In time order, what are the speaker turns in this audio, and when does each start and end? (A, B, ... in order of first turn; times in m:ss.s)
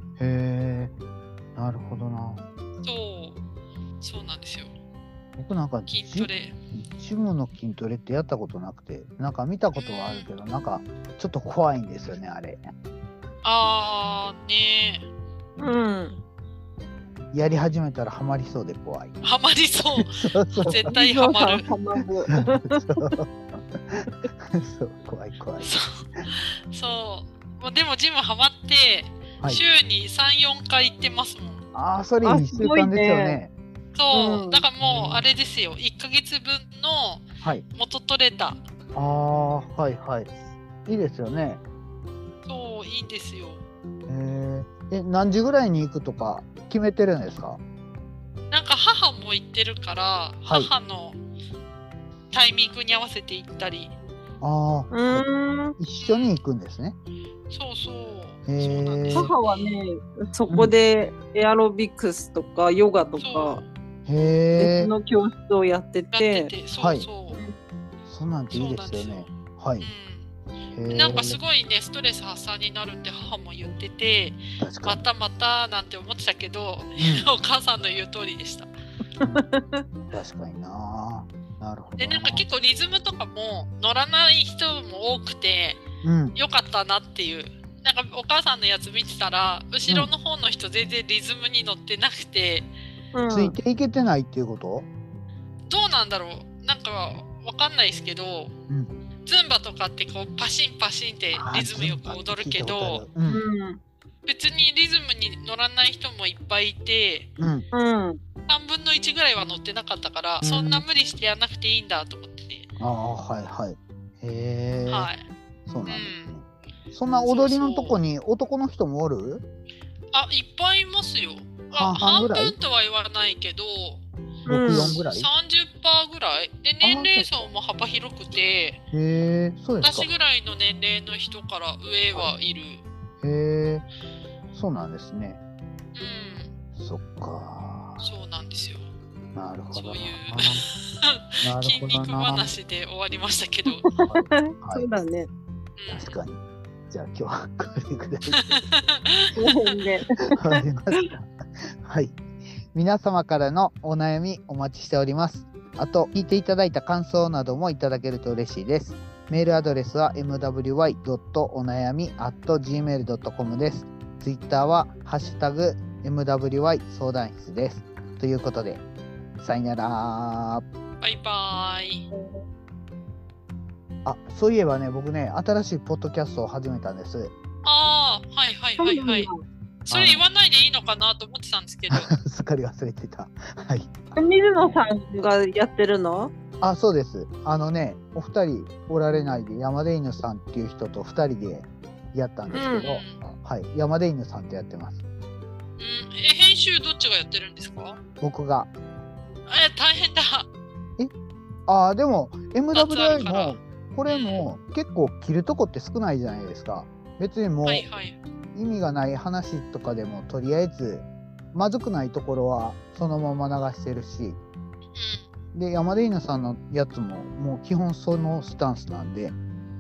0:00.2-0:00.9 A
0:01.6-0:02.4 A
0:02.8-0:03.4 B
0:04.0-0:04.7 B
0:05.4-0:12.6 A
0:05.9-0:06.5 B
0:09.8-0:10.3 B
0:13.4-0:15.0 B
0:15.6-0:16.2 C
0:17.3-0:19.2 A
0:19.2-0:21.7 B
0:20.0-0:20.9 A
0:20.9-0:23.1 C
0:22.3-0:25.7 A
0:25.6-0:31.6 B
0:31.7-0:33.5 A
0:32.2-0:33.4 C
0:34.0-0:38.6 B
0:34.1-0:34.6 C
0:34.8-0:35.3 A
0:39.0-0:40.3 A
0:40.8-0:41.6 A
0:42.5-0:43.6 B
0:44.1-0:47.6 A
0:48.5-0:51.2 B
0:52.3-0:53.9 B
0:54.4-0:55.2 A
0:54.9-0:55.8 C
0:55.8-0:57.0 A
0:56.0-0:56.4 B
0:57.5-0:59.8 B
0:58.5-0:59.3 A
0:59.1-1:03.6 C
1:03.2-1:03.7 B
1:04.1-1:04.9 A
1:04.6-1:06.5 C
1:06.1-1:07.4 B
1:06.8-1:07.1 A
1:07.3-1:07.6 C
1:08.1-1:09.9 A
1:08.5-1:10.3 B
1:10.7-1:11.4 A
1:10.9-1:18.7 B
1:14.6-1:15.0 A
1:17.0-1:17.3 A
1:19.2-1:19.8 C
1:20.1-1:22.4 A
1:22.0-1:25.8 B
1:26.0-1:26.4 A
1:26.4-1:32.7 B
1:33.1-1:33.6 C
1:33.3-1:34.9 A
1:35.7-1:38.5 B
1:39.2-1:43.0 B
1:41.3-1:43.4 A
1:43.3-1:43.8 C
1:44.3-1:47.3 B
1:47.4-1:47.7 A
1:47.7-1:48.2 C
1:48.5-1:52.7 B
1:50.4-1:50.8 A
1:52.8-1:55.1 A
1:54.9-1:55.2 B
1:55.7-1:59.4 A
1:55.9-1:56.3 B
1:57.3-1:58.0 B
2:00.1-2:04.0 B
2:01.7-2:02.6 A
2:04.5-2:05.0 C
2:04.5-2:05.3 A
2:04.7-2:08.8 B
2:06.8-2:07.5 A
2:08.9-2:10.1 A
2:09.8-2:12.8 B
2:13.2-2:13.9 A
2:14.5-2:15.4 A
2:16.0-2:16.5 B
2:16.8-2:18.1 A
2:18.0-2:18.9 B
2:19.4-2:20.6 A
2:19.7-2:23.9 B
2:21.4-2:22.6 A
2:23.8-2:25.3 C
2:24.0-2:24.8 A
2:25.8-2:26.2 B
2:25.9-2:26.4 A
2:26.9-2:28.6 A
2:28.3-2:29.6 B
2:29.4-2:31.1 C
2:30.4-2:31.3 A
2:31.8-2:32.2 A
2:32.7-2:48.8 A
2:49.4-2:50.6 A
2:51.0-2:52.1 B
2:52.1-2:52.4 C
2:54.0-2:57.3 A
2:57.6-2:59.3 B
2:58.8-2:59.4 C
2:59.8-3:02.1 B
2:59.9-3:00.2 A
3:01.9-3:04.0 A
3:04.2-3:06.3 C
3:06.6-3:15.0 A
3:12.5-3:12.9 C
3:12.8-3:13.2 B
3:15.8-3:18.0 B
3:18.2-3:18.7 A
3:19.5-3:20.5 B
3:21.7-3:27.9 A
3:22.7-3:24.5 B
3:27.7-3:28.2 B
3:28.5-3:34.4 A
3:35.0-3:35.2 B
3:35.5-3:39.4 A